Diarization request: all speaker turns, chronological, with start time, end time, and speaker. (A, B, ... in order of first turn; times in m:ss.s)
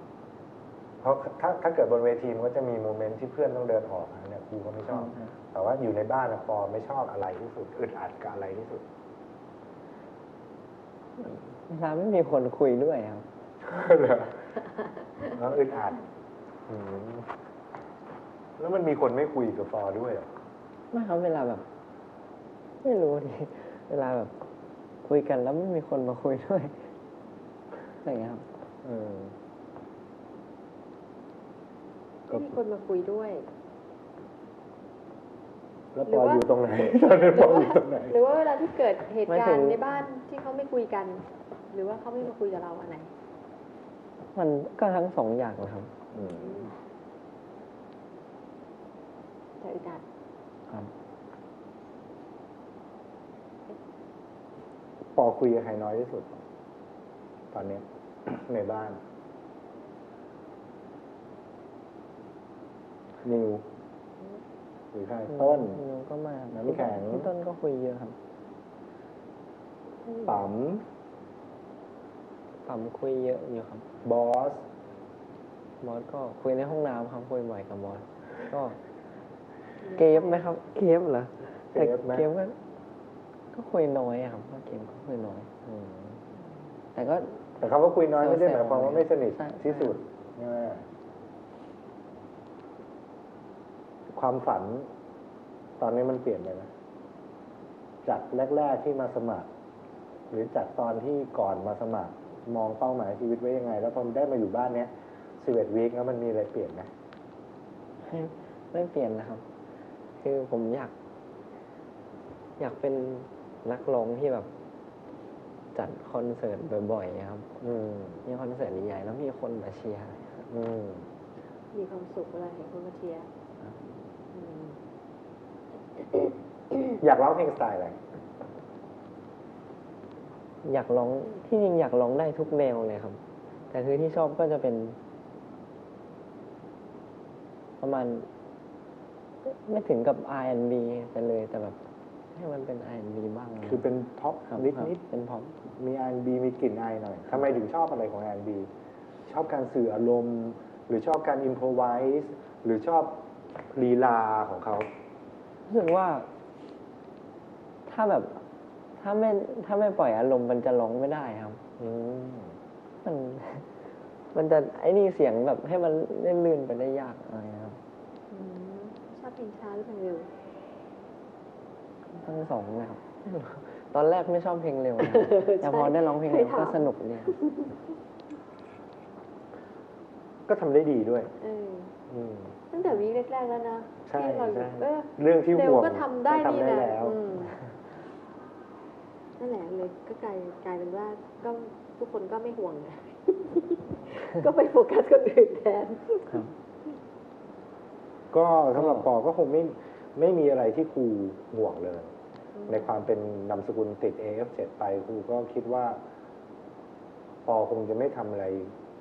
0:01.0-0:08.8 A
0:04.9-0:05.3 B
0:11.2-0:13.3 B
0:13.6-0:14.4 A
0:15.2-0:16.0 A
0:16.7-0:17.3 A
0:18.6-0:20.3 A
0:20.9-0:21.6 B
0:22.8-0:24.4 B
0:25.0-0:26.8 B
0:28.0-0:28.4 B
0:28.8-0:29.3 A
0:32.3-0:33.5 C
0:35.9-0:38.2 A
0:36.1-0:43.1 C
0:39.3-0:39.8 B
0:44.4-0:45.9 B
0:46.1-0:46.7 A
0:46.2-0:46.7 C
0:49.6-0:50.0 C
0:55.2-0:56.4 A
0:57.5-0:59.0 A
1:03.2-1:03.6 A
1:04.9-1:05.8 A
1:05.3-1:08.2 B
1:06.5-1:07.3 A
1:10.2-1:10.8 A
1:12.6-1:13.9 B
1:14.0-1:14.6 A
1:15.8-1:18.8 B
1:19.8-1:20.5 C
1:20.0-1:22.6 B
1:21.7-1:22.3 A
1:23.5-1:25.5 B
1:25.7-1:26.2 A
1:27.0-1:27.4 B
1:27.6-1:30.8 A
1:28.2-1:30.0 B
1:34.1-1:34.9 A
1:35.8-1:36.7 A
1:38.0-1:39.5 A
1:40.3-1:46.9 A
1:48.0-1:49.4 B
1:50.2-1:50.9 B
1:52.6-1:54.5 B
1:55.7-1:57.5 B
1:57.6-1:58.2 A
1:58.2-2:00.4 B
2:00.5-2:01.1 A
2:01.7-2:03.3 C
2:04.3-2:04.8 C
2:07.0-2:08.0 A
2:10.6-2:15.0 B
2:17.8-2:18.3 B
2:19.4-2:21.8 B
2:22.3-2:23.9 B
2:23.6-2:25.0 A
2:24.5-2:25.6 B
2:25.8-2:28.7 A
2:29.3-2:33.2 A
2:33.7-2:34.9 A
2:35.7-2:36.3 B
2:37.9-2:38.4 B
2:39.0-2:41.6 B
2:41.8-2:42.6 A
2:43.0-2:43.7 B
2:44.3-2:47.8 B
2:48.3-2:50.3 C
2:52.2-2:57.4 B
2:55.0-2:57.8 C
3:00.5-3:01.3 A
3:01.4-3:02.0 C
3:02.1-3:02.6 A
3:02.7-3:07.6 C
3:04.1-3:07.2 A
3:09.4-3:16.4 C
3:18.3-3:22.1 A
3:22.6-3:23.0 C
3:22.7-3:26.0 A
3:27.5-3:28.7 A